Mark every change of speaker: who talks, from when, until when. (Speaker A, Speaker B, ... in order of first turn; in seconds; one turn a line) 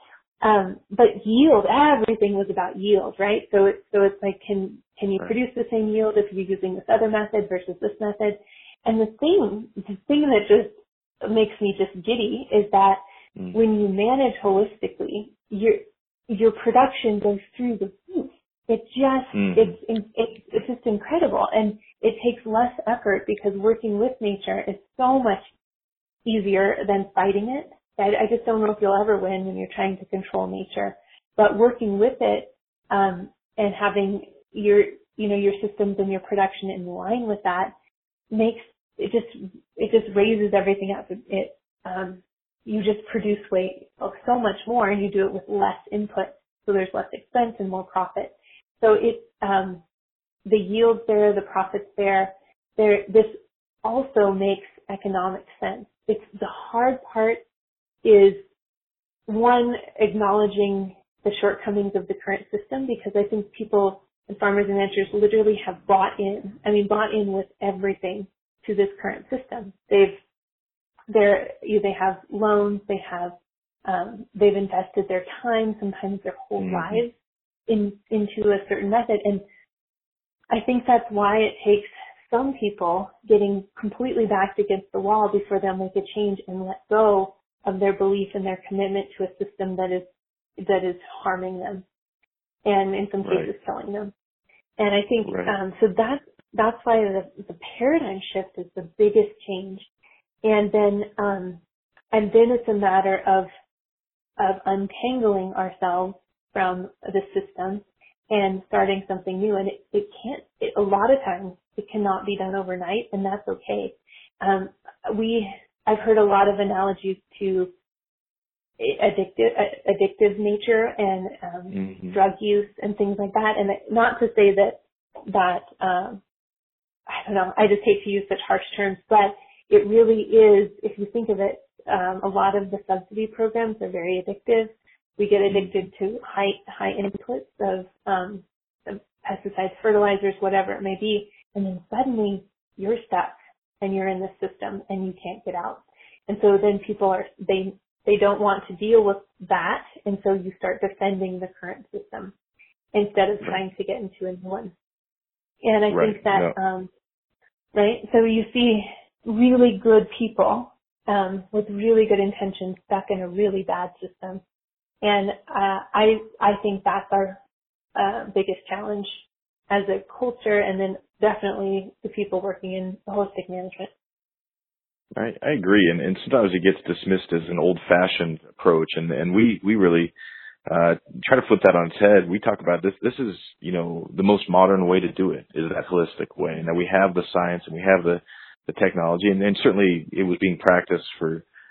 Speaker A: 0.4-13.0
Speaker A: 13.5-25.5
Speaker B: 19.3-19.8
Speaker A: 26.2-37.7
Speaker A: 38.3-49.8
Speaker A: 50.5-57.4
Speaker A: 58.0-58.4
Speaker A: 59.3-70.2
Speaker A: 71.1-77.1
Speaker B: 76.6-77.0
Speaker A: 77.7-79.4
Speaker A: 80.5-90.1
Speaker A: 90.6-91.8
Speaker A: 92.7-94.1
Speaker B: 93.2-93.5
Speaker A: 94.8-99.9
Speaker B: 95.2-95.5
Speaker A: 100.4-101.6
Speaker A: 102.1-103.5
Speaker A: 104.4-117.7
Speaker A: 118.8-126.2
Speaker B: 121.7-122.2
Speaker A: 127.1-152.3
Speaker A: 152.9-154.7
Speaker A: 155.6-156.9
Speaker B: 155.9-156.6
Speaker A: 157.7-164.4
Speaker A: 165.0-167.4
Speaker A: 168.0-173.9
Speaker B: 175.2-180.1
Speaker B: 180.7-191.4